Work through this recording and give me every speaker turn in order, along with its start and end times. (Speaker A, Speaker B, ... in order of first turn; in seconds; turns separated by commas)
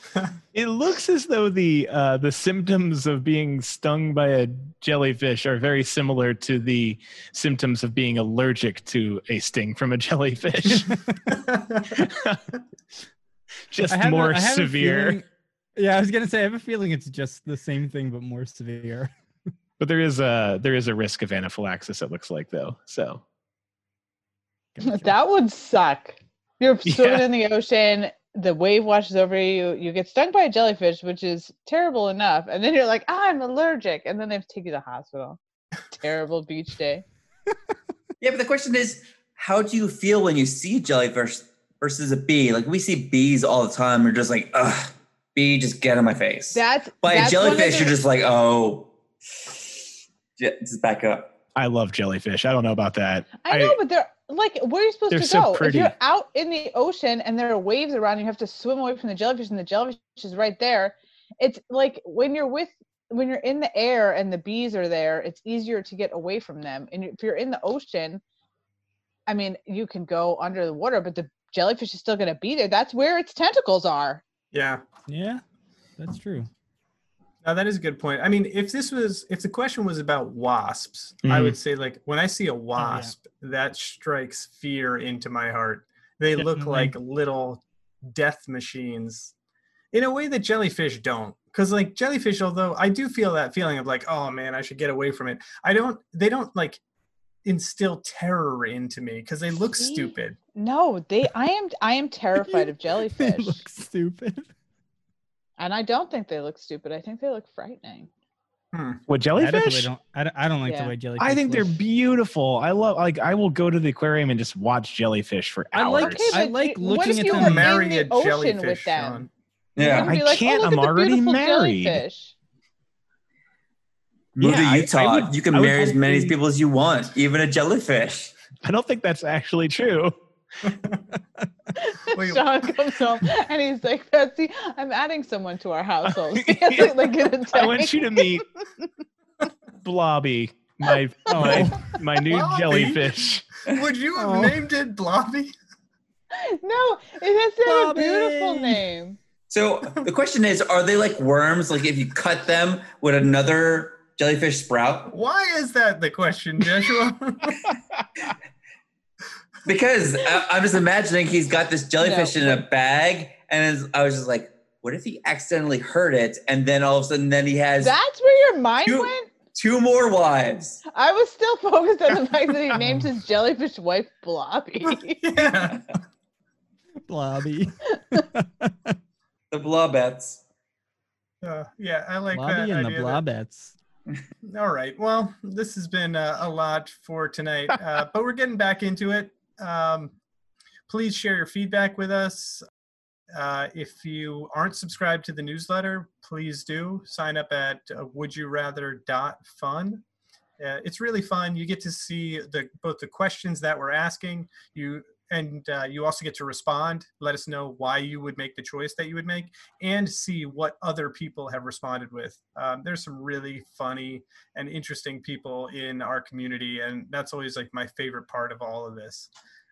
Speaker A: 0.5-11.0, Speaker B: 11.5-11.8, Speaker A: 11.9-12.4, Speaker A: 13.7-15.2, Speaker C: 13.9-19.1, Speaker A: 19.8-23.2, Speaker C: 24.8-25.1, Speaker D: 24.8-35.4, Speaker A: 26.9-27.3, Speaker D: 35.9-37.0, Speaker E: 38.2-49.8, Speaker D: 46.5-48.0, Speaker E: 50.4-51.3, Speaker A: 51.6-53.8, Speaker D: 53.4-68.2, Speaker A: 55.1-55.9, Speaker D: 69.3-74.2, Speaker B: 74.5-74.8, Speaker C: 75.1-75.4, Speaker C: 76.0-76.5, Speaker B: 77.4-89.3, Speaker A: 81.2-81.6, Speaker C: 82.8-83.1, Speaker C: 86.4-86.9, Speaker B: 89.9-96.8, Speaker B: 97.5-100.4, Speaker D: 99.6-103.7, Speaker C: 102.4-104.5, Speaker D: 105.6-108.1, Speaker B: 108.7-109.0, Speaker A: 109.1-109.9, Speaker C: 109.4-111.8, Speaker D: 110.7-110.9, Speaker A: 111.2-116.4, Speaker C: 115.7-117.7, Speaker D: 116.0-122.3, Speaker B: 117.3-119.3, Speaker E: 119.8-120.1, Speaker A: 120.0-122.0, Speaker E: 124.4-128.3, Speaker A: 124.4-126.4, Speaker A: 128.6-130.1, Speaker B: 130.6-131.0, Speaker D: 131.8-138.8, Speaker B: 132.1-132.7, Speaker A: 136.1-138.5, Speaker A: 139.8-143.4, Speaker C: 141.3-141.9, Speaker B: 142.3-145.5, Speaker C: 144.2-144.6, Speaker D: 146.3-149.2, Speaker C: 147.6-148.8, Speaker E: 149.5-155.1, Speaker B: 155.1-157.6, Speaker E: 159.7-168.0, Speaker D: 162.0-162.6, Speaker D: 167.8-169.3, Speaker E: 168.8-170.8, Speaker D: 170.9-175.4, Speaker C: 172.8-173.1, Speaker B: 175.2-175.9, Speaker C: 177.1-178.8, Speaker E: 179.5-180.4, Speaker B: 181.4-183.2, Speaker C: 182.3-183.8, Speaker B: 184.4-190.2, Speaker B: 190.9-192.7, Speaker B: 193.3-200.0, Speaker B: 200.6-219.3